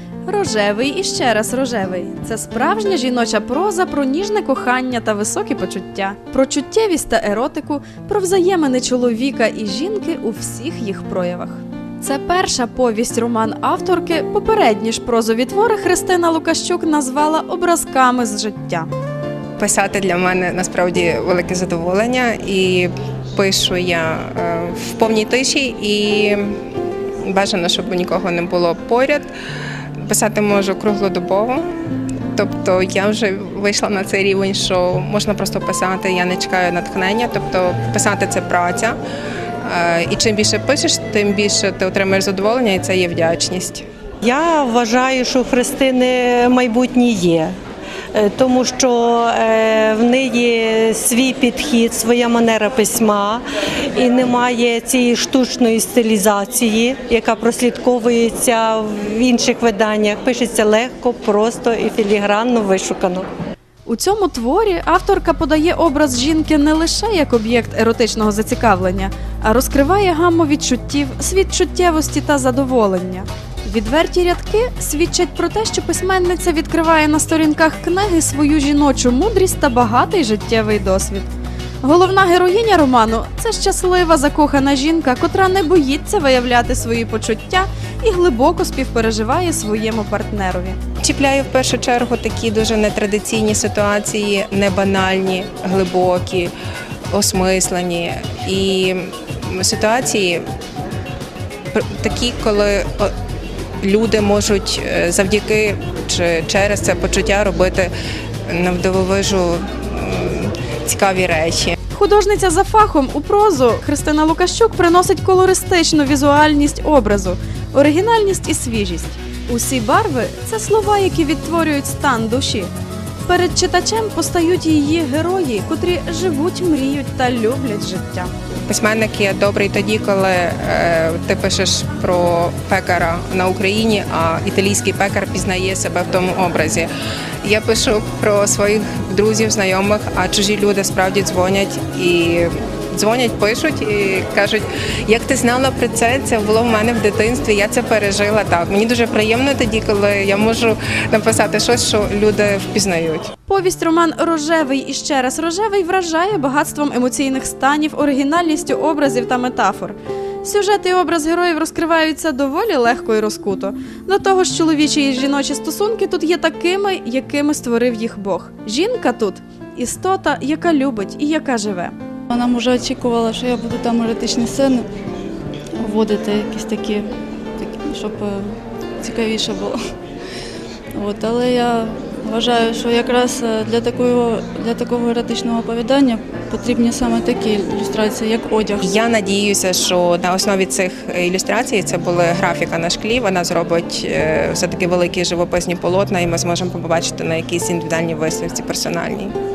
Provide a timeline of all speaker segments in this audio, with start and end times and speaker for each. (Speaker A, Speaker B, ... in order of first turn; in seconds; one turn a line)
Speaker A: 0.3-18.9
Speaker B: 19.6-26.6
Speaker B: 27.3-29.3
Speaker B: 30.1-31.8
Speaker B: 32.3-39.0
Speaker B: 39.6-43.9
Speaker C: 44.2-47.5
Speaker C: 48.1-53.4
Speaker C: 54.0-63.2
Speaker A: 63.9-81.3
Speaker A: 81.8-90.8
Speaker B: 91.0-96.5
Speaker B: 97.1-100.4
Speaker B: 101.7-103.1
Speaker B: 103.8-107.9
Speaker B: 108.5-111.8
Speaker A: 111.9-122.7
Speaker A: 123.3-128.3
Speaker B: 128.7-136.9
Speaker B: 137.4-153.3
Speaker A: 153.5-171.9
Speaker D: 172.3-174.9
Speaker D: 175.8-179.8
Speaker D: 180.9-188.8
Speaker B: 188.8-199.3